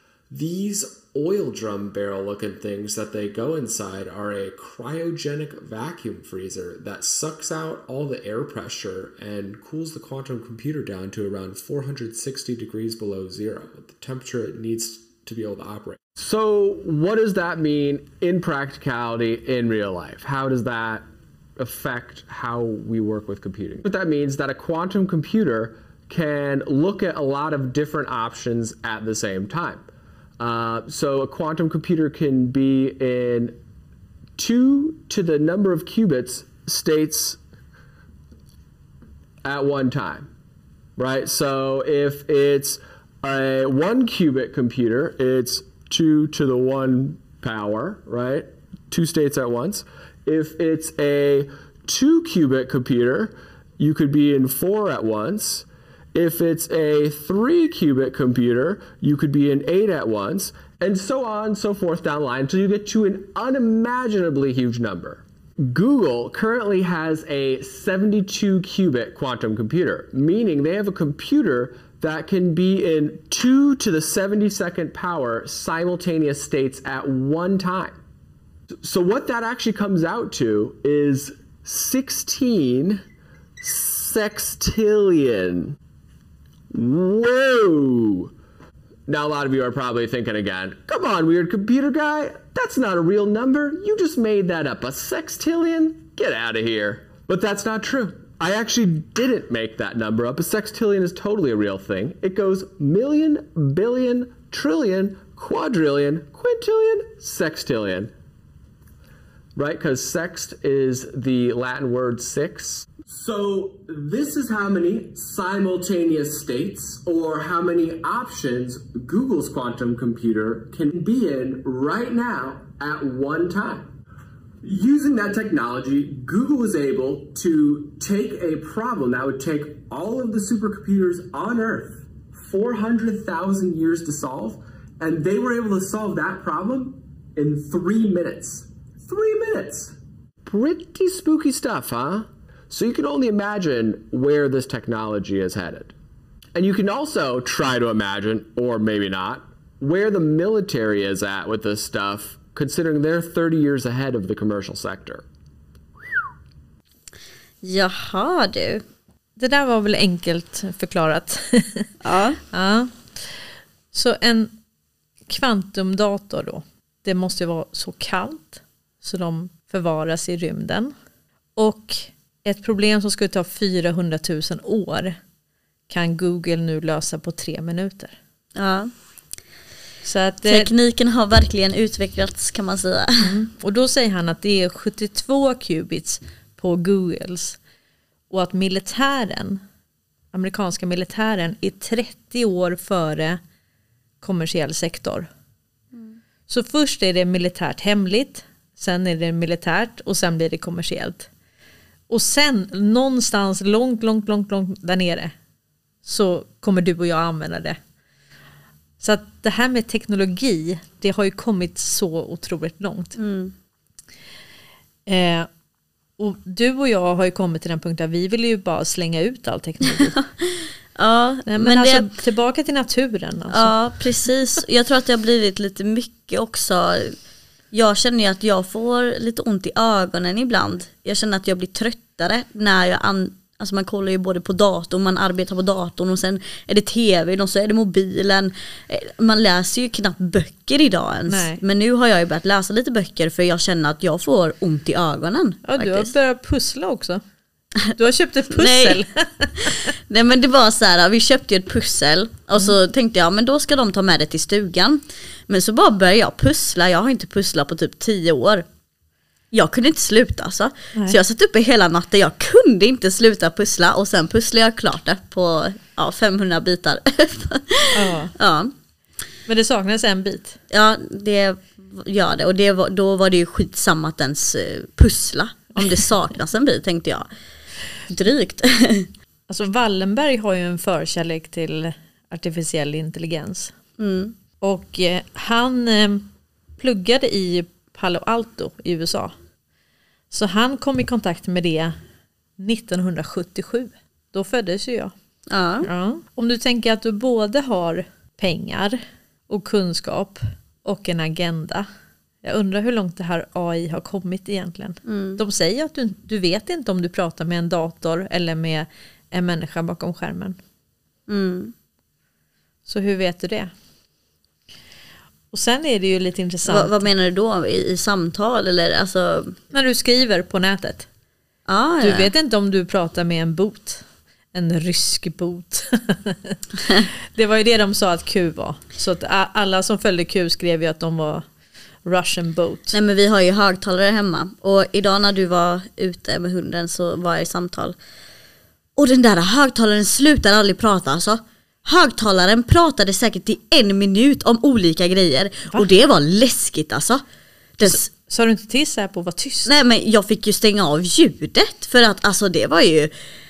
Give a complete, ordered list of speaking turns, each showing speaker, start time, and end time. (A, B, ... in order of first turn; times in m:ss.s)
0:00.3-0:21.1 A
0:21.6-0:29.9 A
0:30.4-0:33.6 A
0:34.4-0:37.4 A
0:39.4-0:40.3 A
0:41.0-1:18.0 A
1:18.8-1:23.0 A
1:23.6-1:25.8 A
1:26.7-1:28.3 A
1:29.1-1:48.1 A
1:49.6-2:03.9 A
2:04.6-2:25.9 A
2:26.6-2:35.2 A
2:37.6-2:38.8 B
2:39.4-2:41.9 C
2:42.0-2:42.4 B
2:42.5-2:44.5 C
2:45.3-2:50.9 C
2:51.6-2:55.2 C
2:55.9-2:58.2 C
2:58.6-2:58.9 B
3:00.0-3:00.7 C
3:00.4-3:03.3 B
3:03.2-3:07.6 C
3:08.3-3:09.6 C
3:10.3-3:13.4 C
3:14.2-3:15.3 C
3:15.9-3:16.2 B
3:16.5-3:21.3 C
3:22.1-3:25.3 C
3:26.0-3:27.8 C
3:29.0-3:33.2 C
3:33.2-3:33.5 B
3:35.1-3:35.5 C
3:36.2-3:40.2 C
3:40.4-3:42.1 B
3:41.5-3:43.8 C
3:43.5-3:47.2 B
3:47.7-4:06.1 B
4:01.3-4:01.6 C
4:05.6-4:07.2 C
4:08.0-4:09.7 C
4:08.5-4:09.0 B
4:09.6-4:18.7 B
4:19.5-4:28.7 B
4:27.9-4:28.3 C
4:29.5-4:30.6 C
4:30.7-4:37.3 B
4:38.1-4:39.1 B
4:39.5-4:43.8 C
4:44.0-4:44.4 B
4:44.6-4:46.3 C
4:46.8-4:49.3 C
4:50.3-4:52.0 C
4:52.6-4:55.1 C
4:55.5-4:55.9 B
4:55.8-5:01.9 C
5:02.4-5:10.6 C
5:05.0-5:05.4 B
5:11.3-5:11.7 B
5:12.9-5:13.7 C
5:15.5-5:17.1 C
5:16.7-5:19.6 B
5:19.7-5:21.1 C
5:21.7-5:22.3 B
5:22.0-5:26.6 C
5:27.3-5:31.5 C
5:32.0-5:33.0 C
5:32.9-5:38.0 B
5:39.0-5:47.2 B
5:47.8-5:48.1 B
5:47.8-5:49.7 C
5:49.7-5:53.1 B